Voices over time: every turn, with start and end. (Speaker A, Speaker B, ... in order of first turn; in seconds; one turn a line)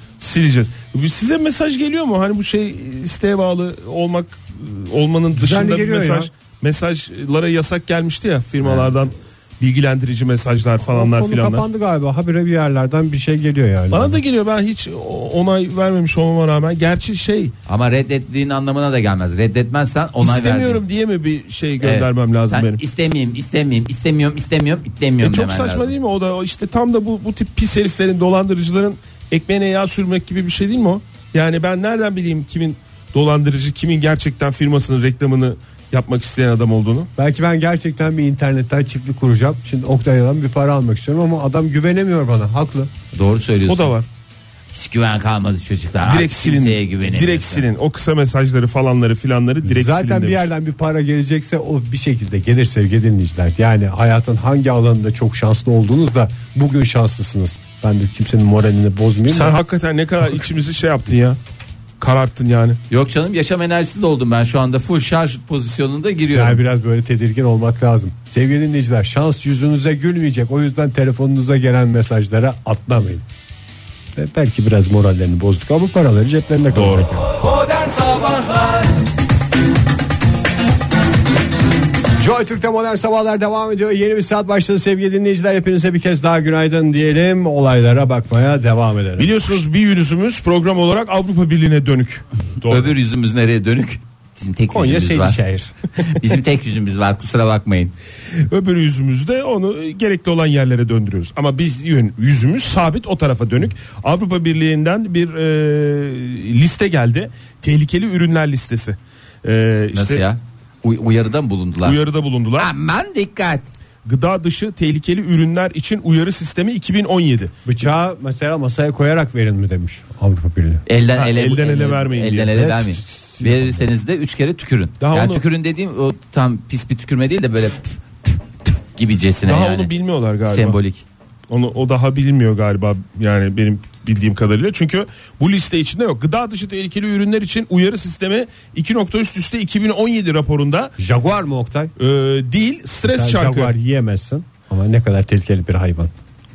Speaker A: 0.2-11.6
Speaker B: 5.3-6.3
Speaker C: 8.6-8.9
Speaker B: 10.9-14.2
Speaker A: 13.9-17.5
Speaker C: 17.7-20.8
Speaker A: 20.2-22.8
Speaker C: 21.8-25.9
Speaker A: 25.2-37.1
Speaker B: 37.2-42.9
Speaker C: 43.1-44.0
Speaker A: 43.6-44.1
Speaker C: 44.7-47.6
Speaker A: 46.0-50.5
Speaker B: 49.6-59.6
Speaker A: 59.3-61.4
Speaker A: 62.0-62.8
Speaker C: 62.9-66.6
Speaker B: 66.3-73.2
Speaker B: 74.1-77.3
Speaker A: 76.7-77.2
Speaker B: 82.2-89.5
Speaker A: 89.2-92.9
Speaker C: 92.6-95.4
Speaker B: 94.7-95.7
Speaker C: 96.0-97.9
Speaker A: 98.3-110.2
Speaker C: 109.9-112.0
Speaker A: 111.8-112.7
Speaker C: 112.6-113.7
Speaker A: 114.0-117.5
Speaker B: 117.7-120.8
Speaker C: 120.9-128.3
Speaker A: 121.1-122.9
Speaker B: 123.4-123.8
Speaker A: 125.0-125.4
Speaker C: 128.9-129.9
Speaker A: 129.4-130.8
Speaker C: 130.5-131.0
Speaker A: 131.5-140.9
Speaker B: 141.0-141.9
Speaker A: 142.0-143.7
Speaker B: 143.0-146.1